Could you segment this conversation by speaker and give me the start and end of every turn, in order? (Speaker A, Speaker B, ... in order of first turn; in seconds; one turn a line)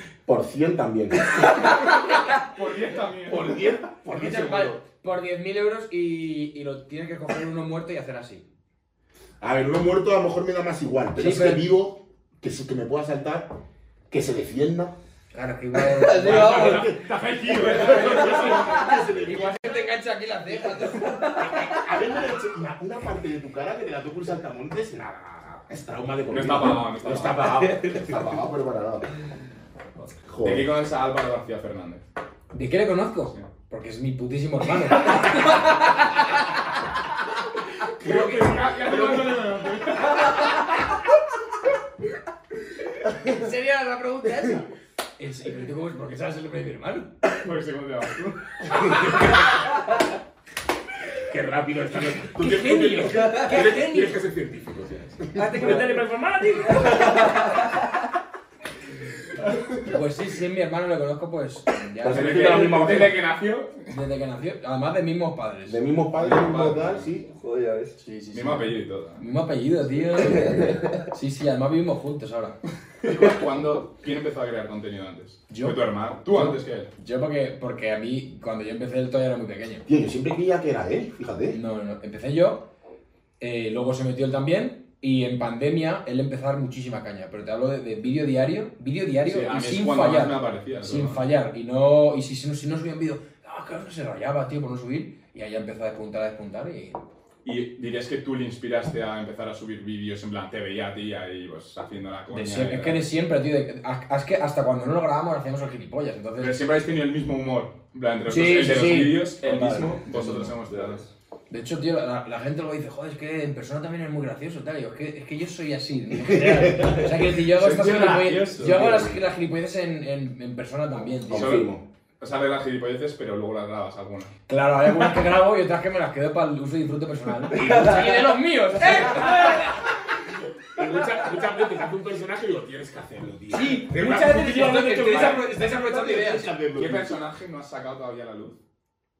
Speaker A: 0.2-1.9
Speaker B: 2.3-3.6
Speaker A: 3.2-4.8
Speaker C: 4.1-8.4
Speaker A: 9.4-13.5
Speaker C: 11.2-11.7
Speaker A: 14.1-14.9
Speaker C: 15.3-16.8
Speaker D: 15.7-16.9
Speaker A: 16.2-19.9
Speaker B: 16.2-18.9
Speaker C: 19.2-21.5
Speaker A: 21.3-29.1
Speaker B: 26.3-27.6
Speaker D: 27.6-28.0
Speaker A: 30.2-30.7
Speaker B: 30.4-32.0
Speaker C: 32.5-36.4
Speaker A: 38.0-39.5
Speaker B: 38.0-40.5
Speaker C: 43.2-44.6
Speaker C: 45.2-47.1
Speaker B: 47.4-49.2
Speaker A: 48.9-49.4
Speaker A: 51.1-56.0
Speaker C: 52.4-54.2
Speaker C: 55.3-57.1
Speaker D: 55.6-56.0
Speaker D: 56.7-57.7
Speaker C: 59.8-63.0
Speaker A: 62.0-63.2
Speaker B: 62.0-63.9
Speaker C: 63.9-65.8
Speaker A: 65.7-67.3
Speaker B: 66.2-67.1
Speaker D: 67.3-68.0
Speaker C: 68.0-72.6
Speaker B: 68.3-69.2
Speaker A: 70.2-70.7
Speaker B: 73.0-76.9
Speaker C: 75.5-79.8
Speaker A: 79.9-81.6
Speaker C: 81.5-82.6
Speaker C: 83.4-97.0
Speaker B: 89.2-91.2
Speaker B: 97.4-103.0
Speaker C: 102.3-106.6
Speaker B: 106.4-111.0
Speaker C: 108.3-110.5
Speaker C: 111.5-121.6
Speaker A: 116.2-117.1
Speaker B: 117.4-119.0
Speaker A: 118.7-119.2
Speaker A: 121.3-121.8
Speaker B: 121.3-124.3
Speaker C: 124.5-129.9
Speaker A: 127.5-128.2
Speaker B: 128.9-129.6
Speaker A: 130.7-137.1
Speaker C: 133.5-136.5
Speaker B: 136.7-138.6